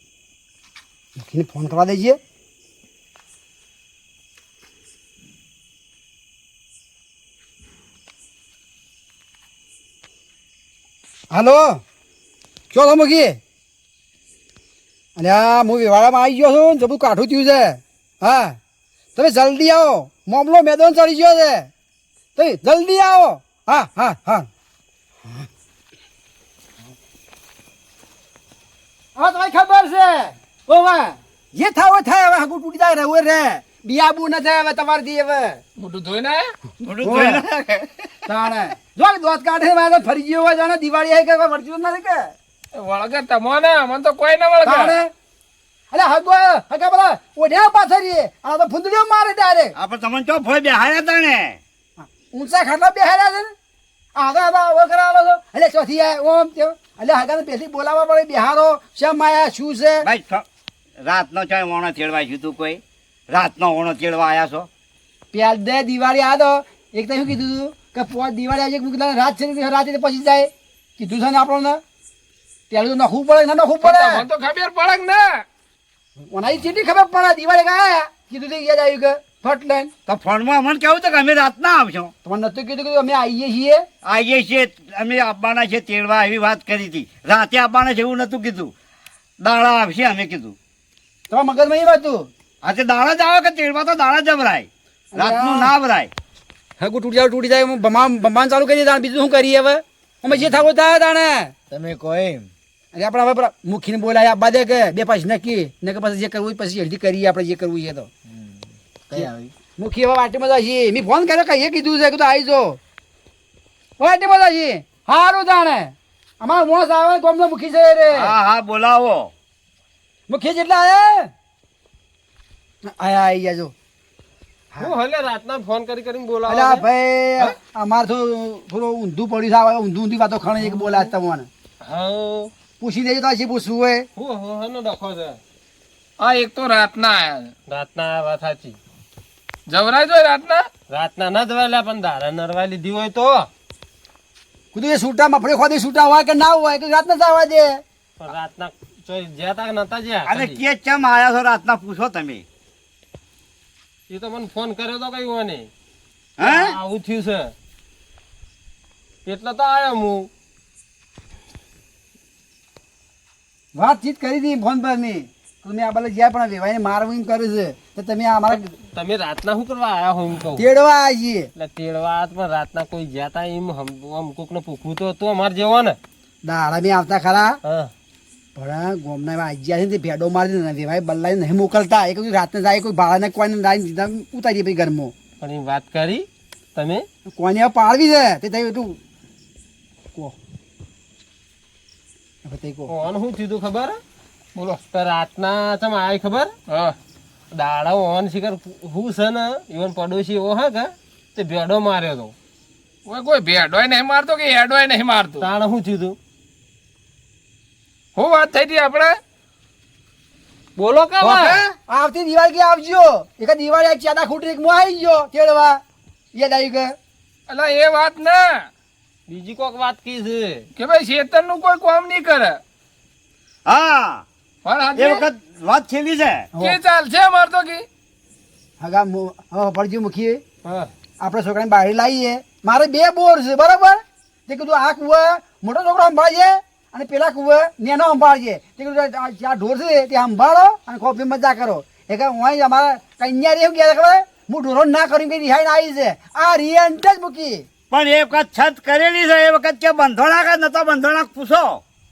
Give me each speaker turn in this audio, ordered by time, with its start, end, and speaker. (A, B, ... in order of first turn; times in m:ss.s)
0:01.2-0:02.2 A
0:11.3-0:11.8 A
0:12.7-0:13.4 A
0:15.2-0:18.6 A
0:19.2-0:21.7 A
0:22.4-0:24.5 A
0:29.2-0:35.6 A
0:35.8-0:36.5 B
0:36.8-0:38.3 C
0:37.0-0:37.4 A
0:38.3-0:42.3 A
0:42.7-0:45.0 B
0:44.6-0:45.1 A
0:45.9-0:49.7 A
0:49.8-0:51.6 C
0:52.0-0:53.5 A
0:54.2-1:00.0 A
1:00.0-1:00.4 C
1:01.0-1:04.7 C
1:05.3-1:11.8 A
1:12.7-1:14.3 A
1:13.8-1:15.4 B
1:16.3-1:19.9 A
1:20.1-1:22.1 C
1:22.2-1:23.8 A
1:24.0-1:28.7 C
1:29.4-1:30.6 C
1:31.3-1:32.3 A
1:32.6-1:36.1 C
1:35.1-1:35.7 A
1:36.8-1:41.5 A
1:40.3-1:40.7 D
1:41.7-1:42.5 D
1:42.9-1:48.1 A
1:48.3-1:49.5 D
1:49.2-1:52.8 A
1:54.0-1:58.3 A
1:58.1-1:59.3 C
2:00.3-2:01.3 A
2:02.9-2:03.7 A
2:04.8-2:06.8 E
2:06.5-2:11.5 A
2:11.8-2:12.5 E
2:12.8-2:14.1 A
2:14.2-2:15.4 E
2:16.2-2:17.6 B
2:17.7-2:18.8 E
2:19.7-2:20.8 B
2:20.9-2:23.5 E
2:24.7-2:27.8 A
2:28.2-2:30.6 E
2:30.3-2:32.4 C
2:34.1-2:35.7 E
2:36.4-2:36.8 C
2:36.4-2:37.5 E
2:39.3-2:40.3 E
2:43.7-2:48.7 A
2:48.5-2:50.6 E
2:50.6-2:51.5 A
2:51.6-2:56.0 E
2:56.4-2:57.6 A
2:57.6-2:57.9 E
2:58.6-3:05.1 A
3:05.4-3:07.1 E
3:07.4-3:09.0 A
3:12.4-3:12.9 A
3:12.9-3:14.0 E
3:14.6-3:14.9 B
3:14.9-3:16.5 E
3:16.7-3:17.0 B
3:17.5-3:22.4 E
3:23.1-3:25.5 B
3:25.4-3:26.2 E
3:28.2-3:29.2 B
3:30.8-3:31.6 E
3:31.2-3:35.8 A
3:31.3-3:31.6 B
3:36.3-3:36.9 A
3:37.5-3:38.7 B
3:39.3-3:40.7 E
3:40.8-3:42.6 B
3:43.7-3:44.2 C
3:44.6-3:45.3 B
3:45.0-3:46.5 C
3:46.6-3:47.9 B
3:48.8-3:50.4 A
3:51.2-4:07.7 A
4:07.9-4:11.8 C